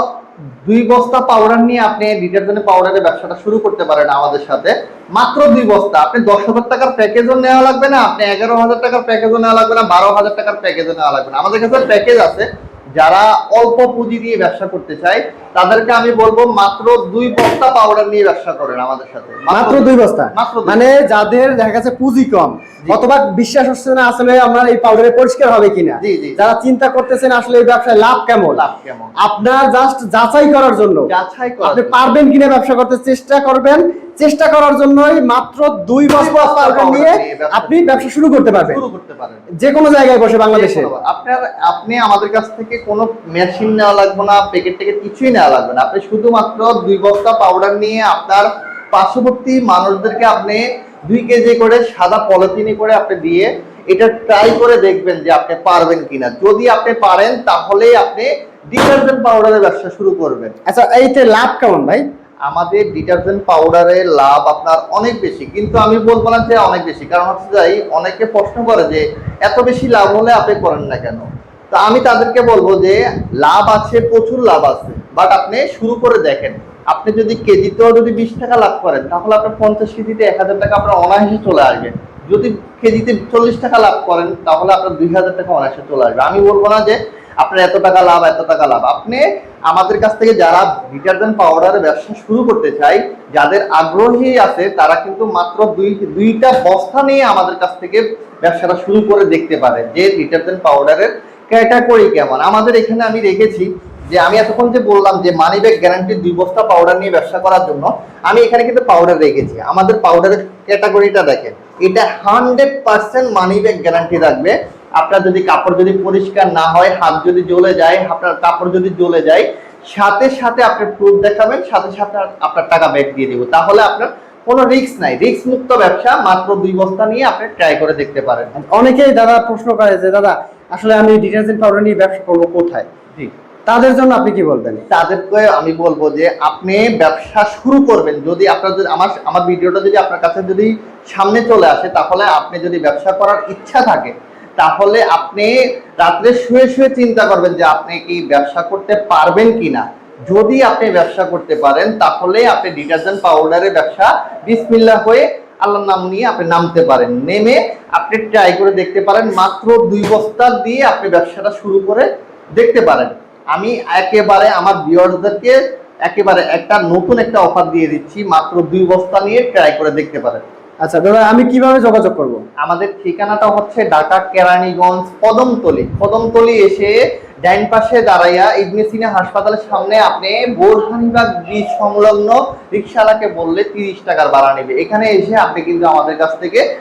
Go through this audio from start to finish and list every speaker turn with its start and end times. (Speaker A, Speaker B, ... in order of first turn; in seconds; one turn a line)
Speaker A: 0.6-20.8
Speaker B: 19.5-28.6
Speaker A: 26.0-26.4
Speaker A: 28.5-29.1
Speaker B: 29.2-31.1
Speaker A: 31.1-32.0
Speaker B: 31.6-38.8
Speaker A: 36.1-38.1
Speaker A: 38.6-39.5
Speaker B: 39.6-40.9
Speaker A: 40.5-60.5
Speaker B: 60.7-62.0
Speaker A: 62.5-128.5
Speaker B: 128.6-132.9
Speaker B: 133.7-134.8
Speaker A: 134.9-170.4
Speaker B: 170.8-172.4
Speaker A: 172.6-186.6